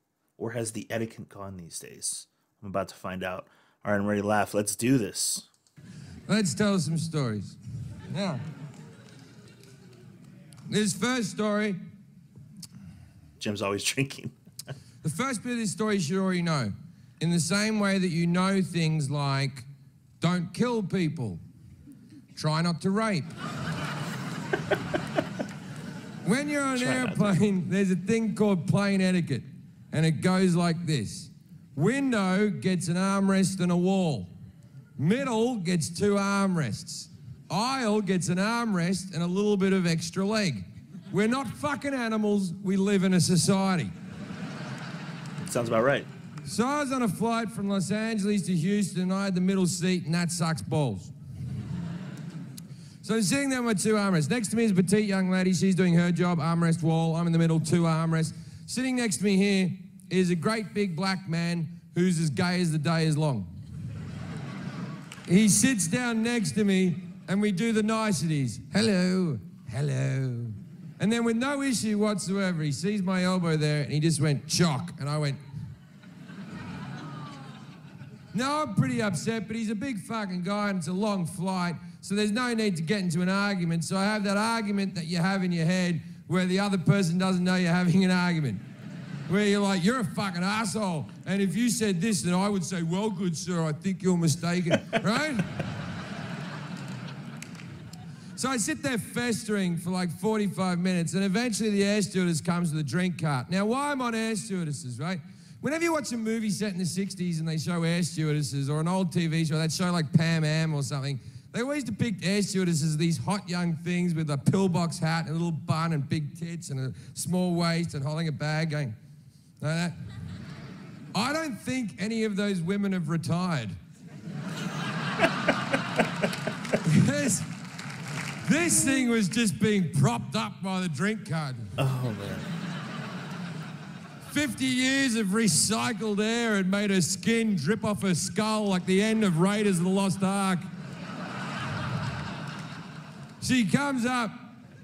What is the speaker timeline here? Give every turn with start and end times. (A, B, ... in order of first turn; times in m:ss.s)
0:00.4-0:05.5 A
0:06.3-0:07.6 B
0:08.1-0:08.4 B
0:10.7-0:11.8 B
0:13.4-0:14.3 A
0:15.0-0:19.6 B
0:20.2-0:21.4 B
0:22.3-0:23.3 B
0:26.2-0:34.3 B
0:26.8-0:27.4 A
0:35.0-0:43.9 B
0:45.4-0:46.1 A
0:46.4-0:51.1 B
0:53.0-1:03.5 B
1:05.2-1:15.4 B
1:18.3-1:28.6 B
1:29.3-1:35.4 B
1:38.4-1:59.0 B
1:59.6-1:59.9 B
2:01.1-2:03.7 B
2:06.8-2:07.5 B
2:08.4-2:11.7 B
2:11.8-2:12.5 A
2:14.3-2:20.6 B
2:23.4-2:24.5 B